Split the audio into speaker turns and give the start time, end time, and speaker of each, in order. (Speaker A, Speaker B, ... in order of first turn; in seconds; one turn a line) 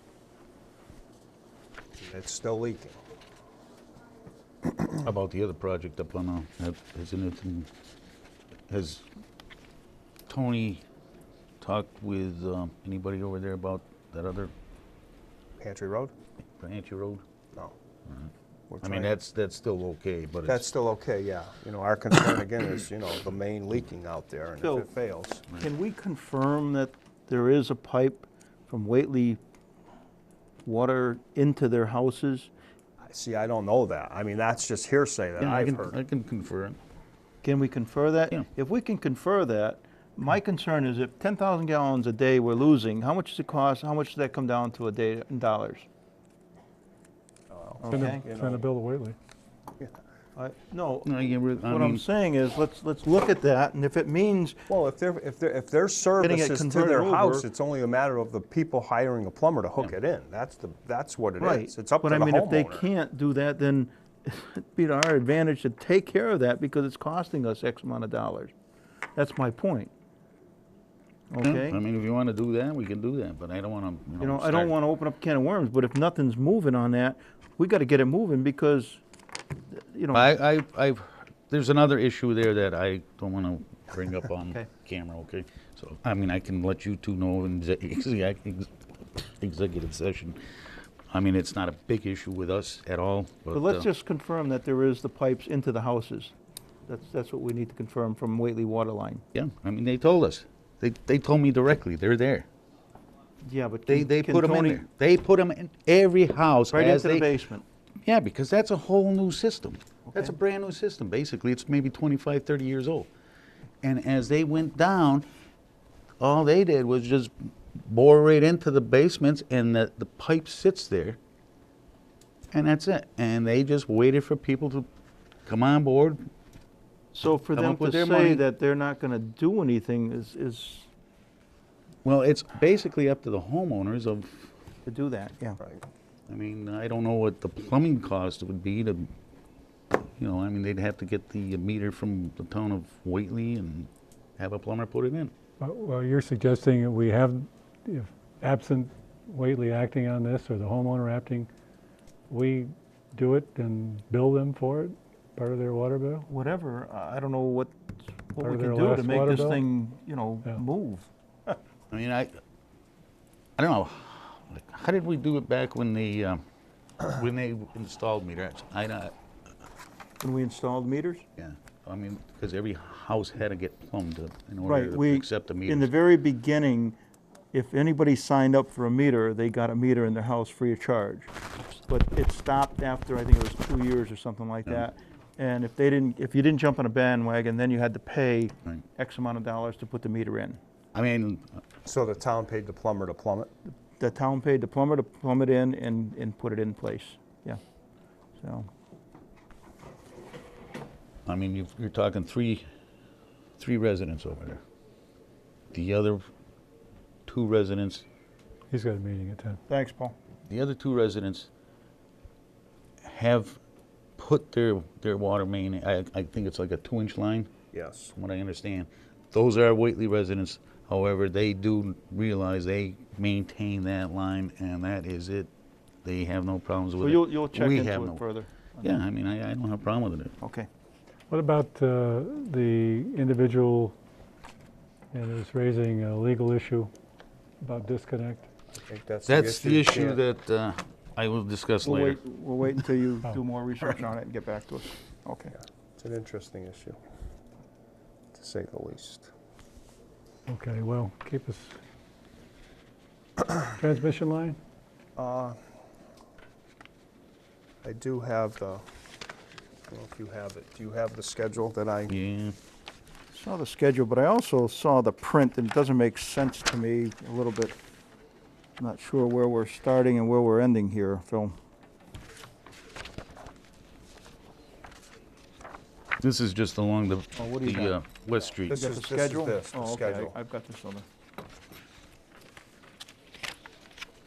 Speaker A: 1.9-3.0
Speaker B: 5.0-7.7
Speaker B: 8.7-9.0
Speaker B: 10.3-10.8
Speaker B: 11.6-14.5
Speaker A: 15.6-16.1
Speaker B: 16.6-17.2
Speaker B: 18.1-20.7
Speaker A: 18.7-19.1
Speaker A: 20.5-25.4
Speaker C: 24.6-24.9
Speaker C: 25.6-29.4
Speaker C: 30.6-32.5
Speaker A: 33.0-36.0
Speaker B: 35.4-36.8
Speaker C: 37.4-45.9
Speaker A: 47.5-48.7
Speaker C: 47.8-48.2
Speaker D: 47.9-49.1
Speaker C: 50.4-51.1
Speaker B: 51.0-52.0
Speaker C: 51.6-54.6
Speaker A: 54.7-62.9
Speaker C: 56.2-57.5
Speaker C: 61.4-68.5
Speaker C: 69.1-69.9
Speaker C: 71.3-71.8
Speaker B: 71.4-74.7
Speaker C: 74.2-79.0
Speaker C: 79.7-80.3
Speaker B: 80.1-90.4
Speaker B: 91.1-93.9
Speaker C: 93.5-96.3
Speaker C: 96.9-99.2
Speaker B: 99.3-102.5
Speaker C: 103.4-104.8
Speaker B: 103.9-107.3
Speaker C: 106.7-107.6
Speaker B: 108.0-113.1
Speaker B: 113.8-115.2
Speaker B: 116.2-121.2
Speaker B: 122.5-124.9
Speaker B: 125.5-126.2
Speaker C: 127.1-130.9
Speaker B: 127.5-128.4
Speaker B: 132.0-134.5
Speaker C: 134.8-135.6
Speaker B: 136.3-139.1
Speaker B: 139.9-145.3
Speaker D: 145.6-151.5
Speaker D: 152.3-156.3
Speaker C: 156.3-161.1
Speaker D: 158.4-159.6
Speaker B: 161.9-162.3
Speaker B: 163.6-166.4
Speaker B: 167.1-169.1
Speaker C: 170.2-171.2
Speaker B: 171.4-175.9
Speaker C: 174.6-177.0
Speaker C: 177.5-190.6
Speaker B: 190.9-191.5
Speaker A: 191.8-193.5
Speaker C: 193.7-197.6
Speaker C: 198.4-198.7
Speaker B: 201.2-202.6
Speaker B: 203.6-204.6
Speaker B: 205.7-206.2
Speaker B: 207.3-208.0
Speaker D: 208.7-209.6
Speaker C: 209.7-210.2
Speaker B: 210.5-211.5
Speaker B: 213.0-213.6
Speaker B: 214.2-217.5
Speaker A: 217.7-218.1
Speaker B: 218.2-225.5
Speaker B: 226.0-228.2
Speaker C: 227.0-229.0
Speaker B: 228.8-230.3
Speaker C: 230.4-230.7
Speaker D: 231.3-233.9
Speaker D: 235.1-236.9
Speaker D: 237.6-238.5
Speaker A: 238.7-240.2
Speaker B: 239.2-242.2
Speaker C: 241.8-245.5
Speaker A: 246.0-247.0
Speaker A: 248.3-249.3
Speaker D: 250.5-251.8
Speaker D: 253.5-254.6
Speaker A: 255.2-255.6
Speaker A: 257.8-258.8
Speaker A: 259.9-262.1
Speaker B: 262.1-262.5
Speaker C: 263.3-267.8
Speaker C: 268.8-271.5
Speaker B: 276.2-278.8
Speaker C: 277.3-278.0
Speaker C: 278.7-281.1
Speaker A: 278.7-280.3